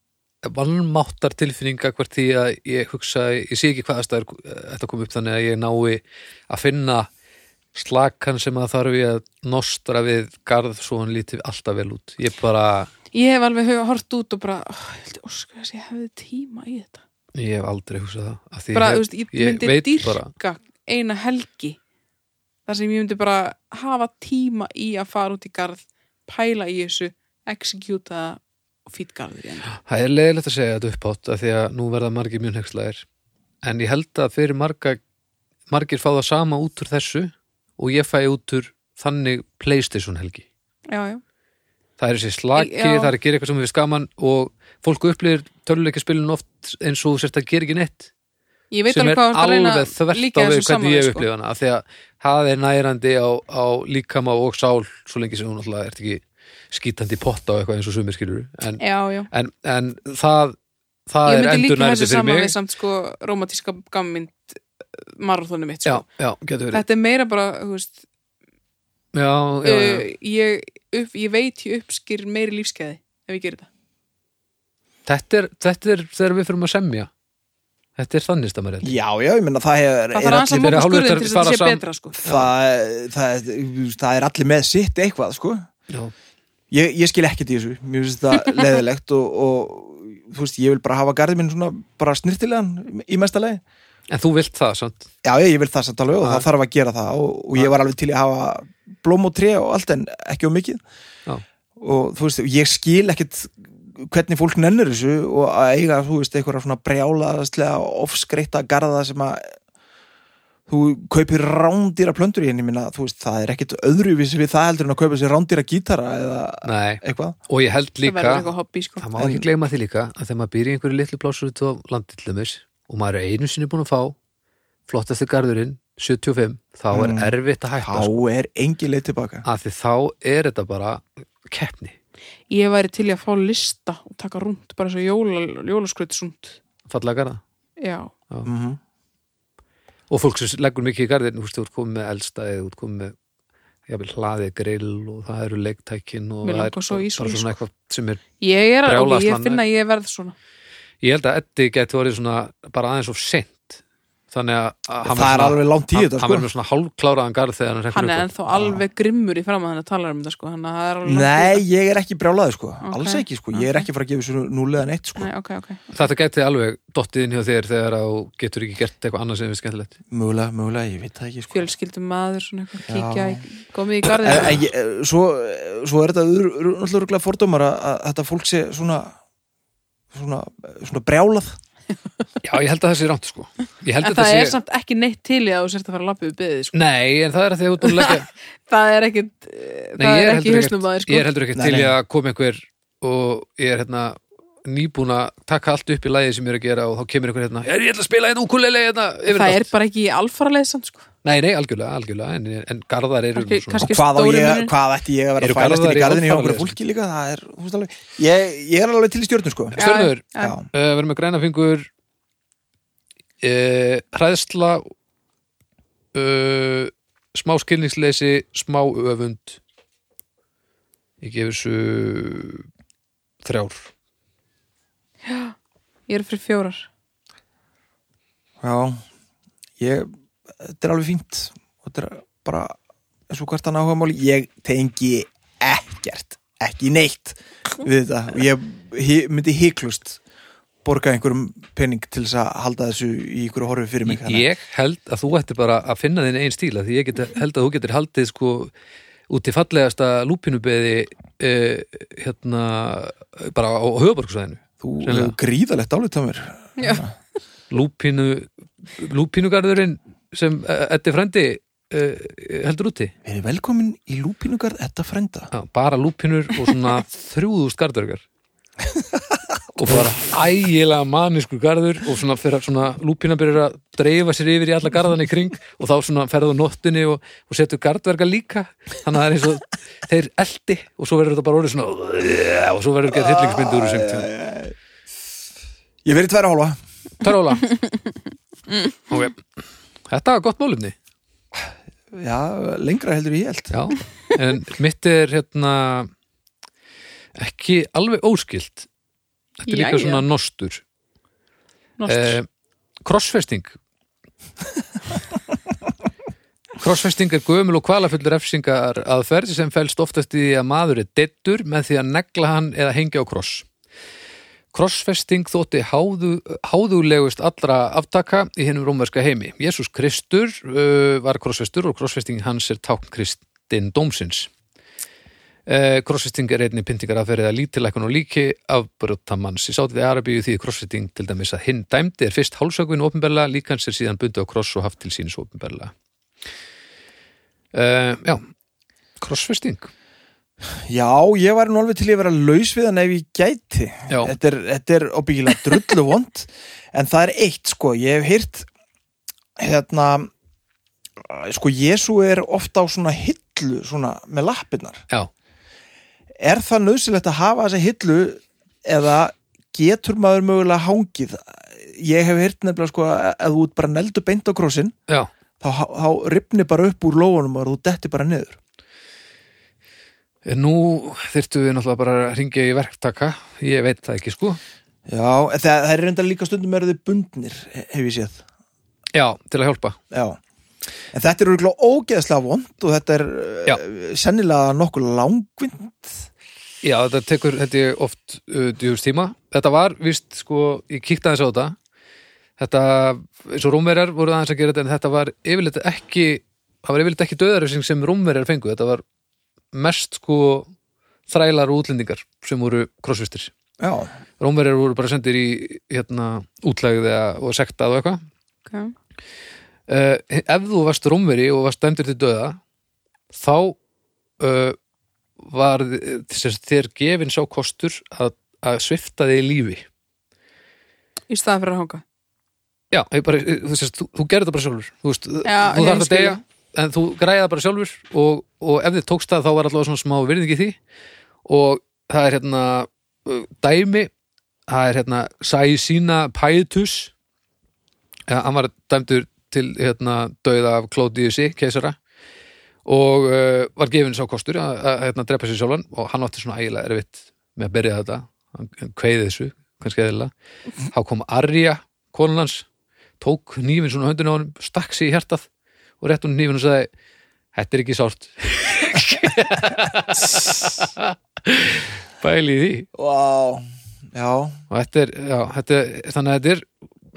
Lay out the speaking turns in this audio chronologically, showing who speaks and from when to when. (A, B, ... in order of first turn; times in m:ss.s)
0:00.4-0:07.1 A
0:07.8-0:12.9 A
0:13.1-0:17.0 B
0:17.4-0:20.3 A
0:18.7-0:21.8 B
0:22.7-0:29.7 B
0:29.7-0:33.0 A
0:33.6-0:35.0 A
0:35.7-0:40.4 A
0:40.9-0:41.2 B
0:42.0-0:48.1 A
0:42.6-0:43.1 B
0:48.7-0:51.3 B
0:48.9-1:00.6 A
0:58.8-0:59.3 B
1:01.1-1:02.5 A
1:01.3-1:06.0 B
1:05.9-1:06.8 A
1:06.7-1:08.0 B
1:09.1-1:10.1 A
1:09.6-1:13.7 B
1:15.1-1:17.1 A
1:18.0-1:19.0 A
1:18.8-1:20.8 C
1:20.1-1:22.2 B
1:20.6-1:22.5 A
1:22.2-1:25.7 C
1:26.7-1:33.6 C
1:34.1-1:35.1 A
1:35.2-1:40.8 C
1:36.2-1:36.5 A
1:41.8-1:49.5 C
1:50.7-1:57.4 C
1:56.6-1:58.5 A
1:58.0-1:59.1 B
1:59.0-2:04.2 A
1:59.2-1:59.4 C
2:04.9-2:08.2 A
2:06.9-2:09.4 C
2:09.4-2:12.0 A
2:12.5-2:16.6 B
2:16.9-2:17.4 A
2:17.8-2:18.1 B
2:18.4-2:18.8 C
2:20.1-2:23.2 A
2:23.9-2:28.2 A
2:26.4-2:27.5 B
2:28.4-2:30.4 B
2:28.8-2:29.6 A
2:31.0-2:38.3 A
2:35.0-2:36.5 C
2:37.9-2:41.6 B
2:38.5-2:38.8 C
2:41.0-2:45.3 C
2:42.8-2:43.8 B
2:45.2-2:45.8 B
2:45.9-2:49.9 A
2:50.1-2:51.7 C
2:51.5-2:54.6 B
2:52.9-2:53.4 C
2:54.0-2:59.2 C
3:00.1-3:01.5 C
3:02.4-3:04.6 A
3:04.0-3:06.8 B
3:06.7-3:08.3 A
3:07.8-3:11.3 B
3:10.0-3:19.7 A
3:11.5-3:12.0 C
3:19.3-3:21.1 B
3:21.2-3:23.9 A
3:23.4-3:24.7 B
3:23.9-3:29.8 C
3:25.4-3:26.7 A
3:29.8-3:31.9 A
3:29.8-3:30.6 B
3:30.4-3:30.7 C
3:33.4-3:34.9 A
3:36.1-3:39.6 A
3:41.2-3:42.7 A
3:43.4-3:43.9 A
3:45.2-3:45.6 B
3:46.1-3:46.9 B
3:48.6-3:49.0 C
3:49.8-3:50.1 C
3:50.6-3:52.8 C
3:53.3-4:00.2 C
4:00.8-4:04.5 C
4:04.1-4:08.7 A
4:09.3-4:15.3 A
4:14.8-4:17.1 C
4:16.8-4:17.0 B
4:17.7-4:23.1 A
4:23.2-4:25.5 C
4:25.5-4:28.2 A
4:29.8-4:44.3 A
4:29.8-4:30.1 C
4:43.1-4:44.8 C
4:46.0-4:46.8 C
4:47.2-4:47.7 A
4:49.1-4:49.4 A
4:50.1-4:51.0 A
4:51.6-4:53.8 C
4:53.7-4:56.1 A
4:57.4-4:58.9 A
4:59.6-5:00.8 A
4:59.7-5:00.2 B
5:02.0-5:02.4 B
5:02.1-5:02.5 A
5:03.0-5:03.8 A
5:06.8-5:13.7 A
5:14.7-5:24.5 A
5:25.7-5:35.9 A
5:37.7-5:38.4 A
5:39.2-5:39.9 A
5:40.9-5:48.7 C
5:44.1-5:44.4 A
5:49.6-5:50.3 C
5:51.2-5:55.0 C
5:56.4-6:05.0 C
6:05.6-6:08.6 C
6:10.4-6:14.6 A
6:15.1-6:18.4 C
6:19.1-6:20.0 A
6:20.1-6:20.4 C
6:21.1-6:26.3 C
6:26.8-6:31.8 A
6:32.6-6:39.0 A
6:39.7-6:40.7 A
6:41.3-6:43.5 A
6:43.8-6:44.1 C
6:44.4-6:48.2 A
6:49.9-6:52.6 A
6:53.3-6:53.8 A
6:54.4-6:54.8 A
6:55.4-6:59.8 A
7:01.3-7:02.0 B
7:02.9-7:10.8 A
7:05.4-7:06.4 B
7:11.5-7:14.1 A
7:14.7-7:17.1 A
7:18.3-7:22.0 A
7:22.8-7:30.3 A
7:30.9-7:32.7 A
7:33.2-7:35.5 A
7:36.0-7:36.9 A
7:37.5-7:42.9 A
7:42.9-7:44.6 C
7:44.7-7:46.7 A